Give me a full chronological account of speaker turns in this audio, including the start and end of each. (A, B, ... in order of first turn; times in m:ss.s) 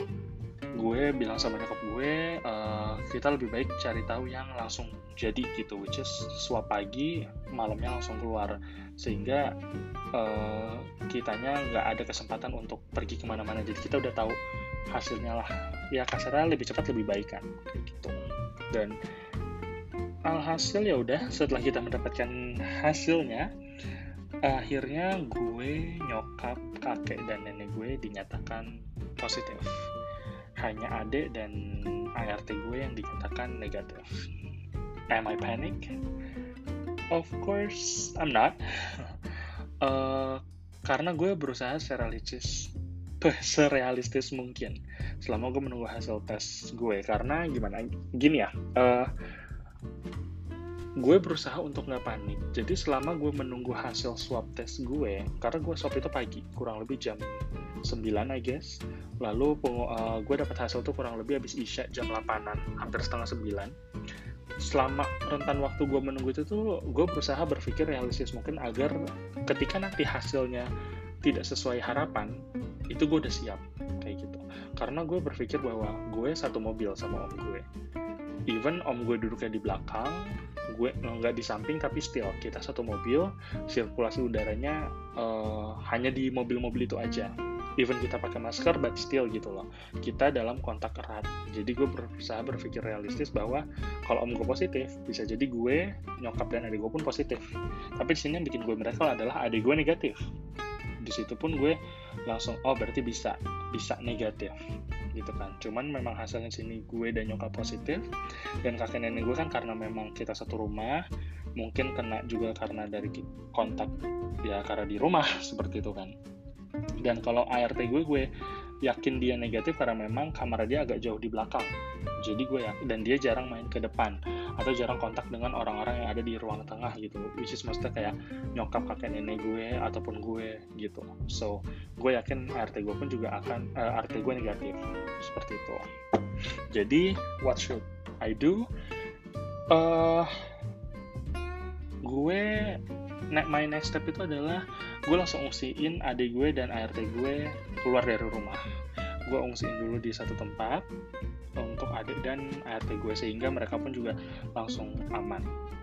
0:00.8-0:09.5 A
0:10.2-0:14.4 A
0:14.9-0:18.2 A
0:20.3-0:23.5 A
0:24.4-0:28.6 A
0:29.2-0:29.7 A
0:30.6-0:31.6 A
0:32.2-0:34.0 A
0:35.1-0:35.8 A
0:37.1-0:39.2 A
0:39.8-0:42.7 A
0:43.2-0:49.1 A
0:51.0-0:57.2 A
0:57.9-1:03.7 A
1:04.6-1:08.9 A
1:09.5-1:10.7 A
1:11.2-1:12.3 A
1:12.9-1:17.6 A
1:18.5-1:20.2 A
1:20.7-1:37.4 A
1:38.0-1:40.2 A
1:41.0-1:44.5 A
1:45.2-1:48.0 A
1:48.6-1:51.0 A
1:51.6-1:53.9 A
1:54.4-1:56.1 A
1:57.0-1:58.3 A
1:58.8-2:01.7 A
2:02.2-2:15.8 A
2:16.7-2:18.6 A
2:19.7-2:20.3 A
2:22.1-2:22.8 A
2:23.3-2:28.6 A
2:29.3-2:30.8 A
2:31.6-2:35.4 A